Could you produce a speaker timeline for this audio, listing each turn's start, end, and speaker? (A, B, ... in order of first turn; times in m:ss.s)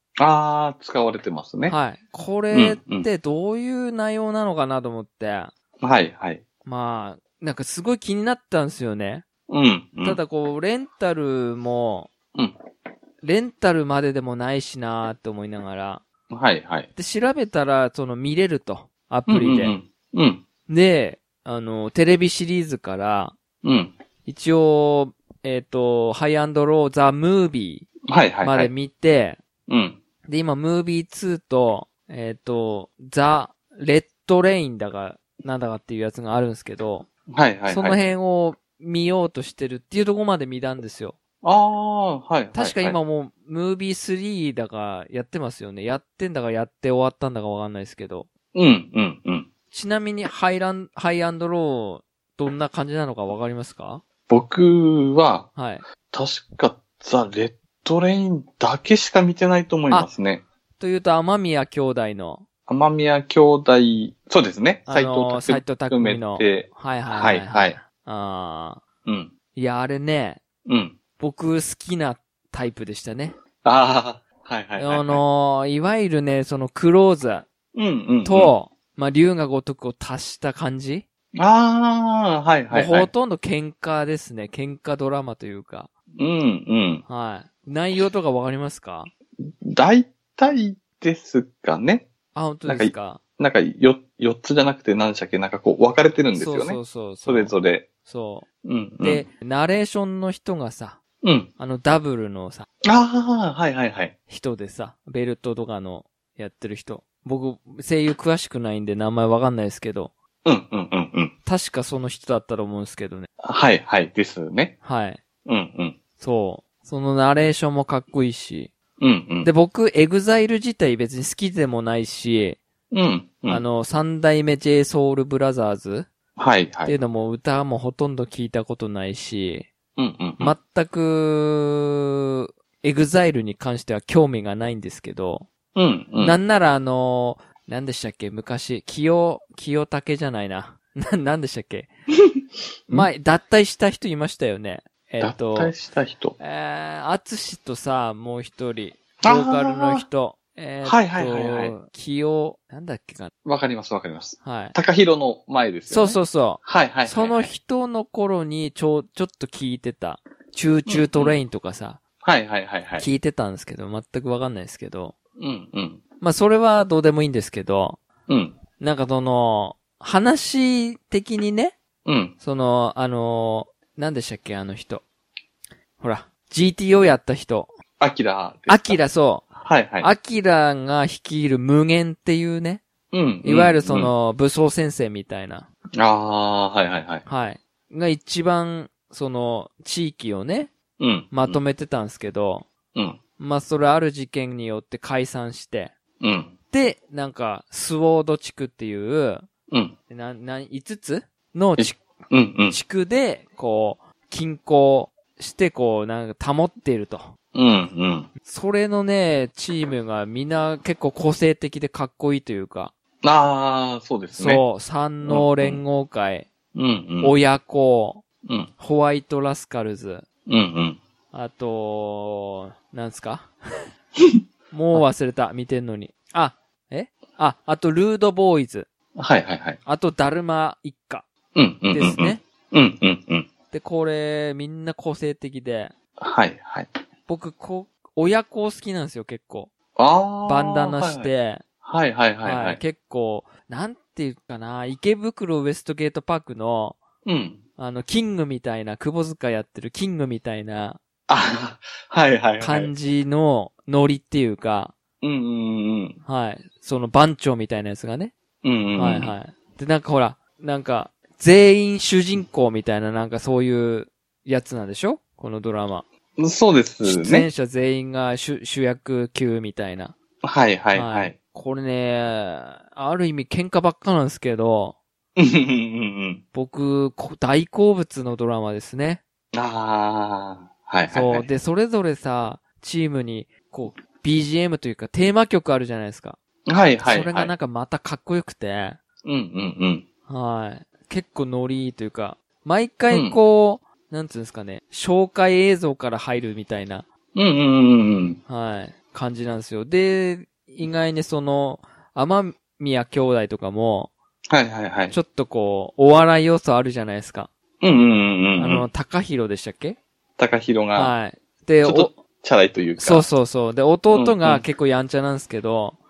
0:00.2-0:01.7 A
0:01.7-0:05.5 B
0:02.5-0:03.1 A
0:05.8-0:06.4 A
0:06.6-0:09.2 B
0:09.5-0:10.2 A
0:10.0-0:12.1 B
0:13.2-0:16.0 B
0:16.3-0:16.9 A
0:16.9-0:19.8 B
0:19.3-0:20.4 A
0:20.7-0:23.4 B
0:23.6-0:23.9 A
0:24.2-0:27.8 B
0:28.1-0:28.7 A
0:28.4-0:29.4 B
0:29.7-0:30.0 A
0:30.3-0:37.1 B
0:37.3-0:38.0 A
0:37.7-0:41.2 B
0:41.4-0:43.0 A
0:42.5-0:48.3 B
0:48.5-0:49.5 A
0:49.7-0:54.0 B
0:54.3-0:55.5 A
0:55.5-0:55.8 B
0:56.1-1:00.4 A
1:00.8-1:02.4 B
1:02.7-1:07.8 A
1:04.9-1:08.8 B
1:09.0-1:09.3 A
1:09.5-1:10.4 B
1:10.6-1:11.0 A
1:11.2-1:13.4 B
1:13.6-1:15.2 A
1:14.8-1:17.4 B
1:17.7-1:18.5 A
1:18.2-1:21.0 B
1:21.3-1:23.1 A
1:22.7-1:25.9 B
1:26.2-1:27.0 A
1:27.1-1:29.1 B
1:29.6-1:32.1 A
1:32.3-1:33.2 B
1:32.6-1:37.8 A
1:36.3-1:38.4 B
1:38.6-1:39.2 A
1:39.0-1:41.0 B
1:41.2-1:41.5 A
1:41.6-1:42.6 B
1:42.9-1:44.1 A
1:44.3-1:50.1 B
1:50.4-1:51.3 A
1:51.4-1:53.3 B
1:53.4-1:54.8 A
1:54.8-1:55.2 B
1:55.4-1:56.0 A
1:56.2-1:58.7 B
1:59.0-1:59.5 A
1:59.4-2:02.6 B
2:02.9-2:03.6 A
2:03.5-2:06.1 B
2:06.4-2:07.0 A
2:06.8-2:09.7 B
2:10.0-2:10.6 A
2:10.4-2:15.5 B
2:15.7-2:16.4 A
2:16.2-2:21.9 B
2:22.9-2:25.7 B
2:25.2-2:26.4 A
2:26.4-2:33.3 B
2:29.2-2:30.0 A
2:30.8-2:31.7 A
2:33.4-2:37.5 A
2:34.4-2:34.8 B
2:35.9-2:42.0 B
2:40.9-2:41.4 A
2:42.2-2:43.1 A
2:43.0-2:45.1 B
2:45.4-2:46.0 A
2:46.2-2:48.0 B
2:48.3-2:48.6 A
2:48.8-2:51.7 B
2:52.0-2:52.3 A
2:52.4-2:55.0 B
2:56.0-2:57.7 B
2:58.0-2:59.0 A
2:58.7-2:59.5 B
2:59.6-3:00.1 A
3:00.0-3:02.8 B
3:03.1-3:04.1 A
3:03.4-3:05.7 B
3:06.0-3:07.2 A
3:07.2-3:10.7 B
3:11.0-3:11.6 A
3:11.3-3:12.6 B
3:13.4-3:15.9 B
3:16.2-3:16.5 A
3:16.7-3:19.5 B
3:19.7-3:19.9 A
3:20.1-3:22.0 B
3:21.8-3:22.8 A
3:22.7-3:27.3 B
3:27.5-3:28.3 A
3:28.4-3:32.9 B
3:33.2-3:34.6 A
3:34.3-3:36.5 B
3:35.2-3:35.8 A
3:36.7-3:37.4 A
3:37.2-3:38.2 B
3:38.4-3:38.7 A
3:38.8-3:40.2 B
3:40.5-3:41.0 A
3:41.3-3:43.5 B
3:44.7-3:48.9 B
3:49.2-3:49.8 A
3:49.8-3:51.2 B
3:51.5-3:53.5 A
3:51.9-3:52.4 B
3:53.7-3:55.9 B
3:56.2-3:56.9 A
3:57.3-3:59.7 B
4:00.0-4:01.3 A
4:00.4-4:01.6 B
4:01.8-4:02.8 A
4:02.4-4:07.0 B
4:07.2-4:07.6 A
4:07.8-4:11.0 B
4:11.3-4:12.9 A
4:12.6-4:14.9 B
4:15.2-4:16.2 A
4:16.2-4:18.3 B
4:18.6-4:19.3 A
4:18.9-4:26.0 B
4:26.4-4:27.5 A
4:27.0-4:30.1 B
4:30.4-4:31.3 A
4:30.9-4:35.0 B
4:35.4-4:36.4 A
4:36.5-4:39.2 B
4:39.5-4:41.5 A
4:41.1-4:46.4 B
4:46.7-4:47.5 A
4:47.0-4:49.0 B
4:49.2-4:50.0 A
4:50.3-4:57.0 B
4:53.1-4:53.4 A
4:57.3-4:58.4 A
4:58.5-5:04.1 B
5:04.5-5:05.1 A
5:05.1-5:07.5 B
5:07.8-5:08.8 A
5:08.6-5:10.0 B
5:10.4-5:11.1 A
5:10.9-5:12.2 B
5:11.8-5:13.3 A
5:13.0-5:16.0 B
5:14.1-5:14.6 A